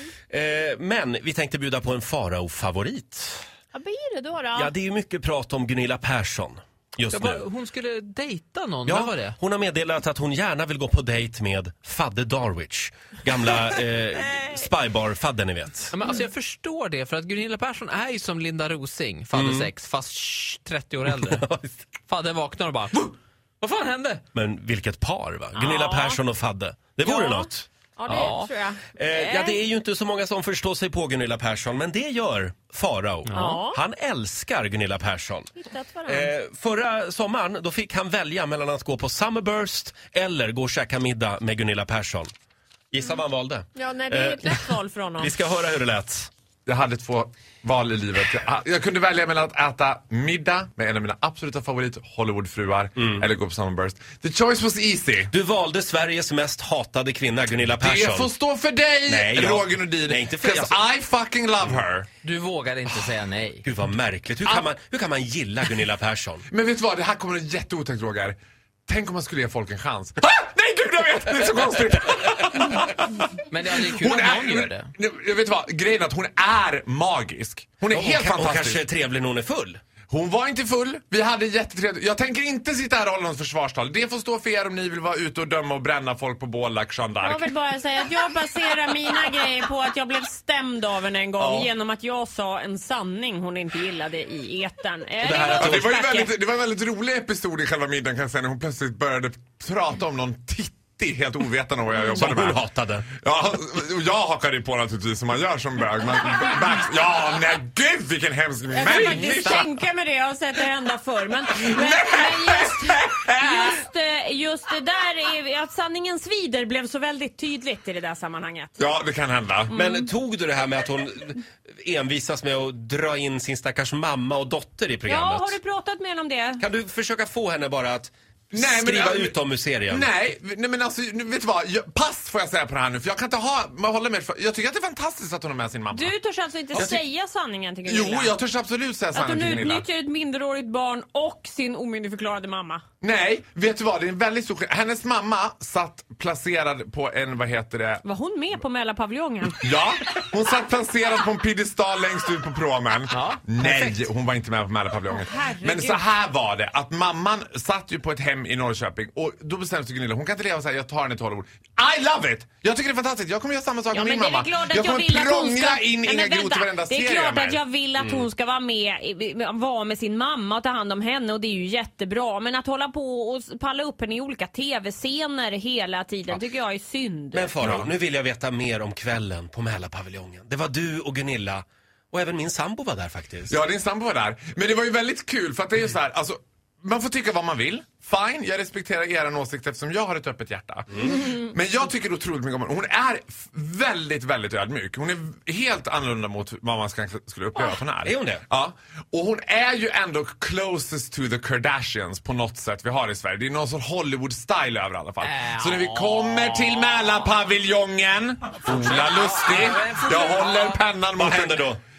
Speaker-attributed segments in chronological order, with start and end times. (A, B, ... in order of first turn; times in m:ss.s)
0:00.3-0:03.4 A
0:03.7-0:04.7 B
0:04.5-0:07.4 A
0:07.1-0:09.4 C
0:08.9-0:15.9 A
0:15.9-0:21.5 C
0:19.3-0:19.7 A
0:21.1-0:21.8 A
0:22.0-0:24.2 C
0:24.3-0:27.7 A
0:25.6-0:26.2 B
0:27.0-0:29.6 B
0:28.1-0:28.5 C
0:28.9-0:35.5 A
0:33.2-0:33.6 C
0:33.3-0:33.8 B
0:35.6-0:36.3 B
0:36.1-0:42.3 A
0:42.9-0:44.7 A
0:43.7-0:45.3 B
0:45.2-0:46.3 A
0:46.6-0:55.3 D
0:55.3-0:58.3 A
0:57.8-1:02.1 D
0:59.1-1:00.8 A
1:02.2-1:03.6 C
1:03.6-1:06.4 A
1:06.5-1:08.4 D
1:08.9-1:13.2 D
1:13.4-1:14.9 C
1:13.9-1:18.8 D
1:17.9-1:19.8 A
1:20.1-1:27.5 D
1:27.2-1:36.3 B
1:31.4-1:31.7 D
1:35.2-1:35.9 A
1:35.3-1:42.6 D
1:42.0-1:43.1 A
1:43.2-1:49.7 D
1:48.7-1:58.7 B
1:49.2-1:49.6 C
1:51.5-1:53.8 D
1:58.8-1:59.7 D
1:59.7-2:05.6 A
1:59.7-2:00.1 B
2:05.0-2:06.6 B
2:06.6-2:10.1 A
2:08.5-2:16.1 D
2:15.9-2:18.3 B
2:16.7-2:17.0 D
2:17.8-2:19.8 D
2:19.1-2:22.8 B
2:23.0-2:28.0 D
2:28.0-2:29.7 B
2:29.6-2:47.6 D
2:33.1-2:34.0 C
2:35.1-2:36.0 B
2:43.9-2:57.5 B
2:57.3-3:03.6 A
2:57.6-2:57.9 D
3:03.5-3:31.7 D
3:18.0-3:18.4 A
3:25.3-3:26.1 C
3:28.7-3:30.8 C
3:31.2-3:31.8 A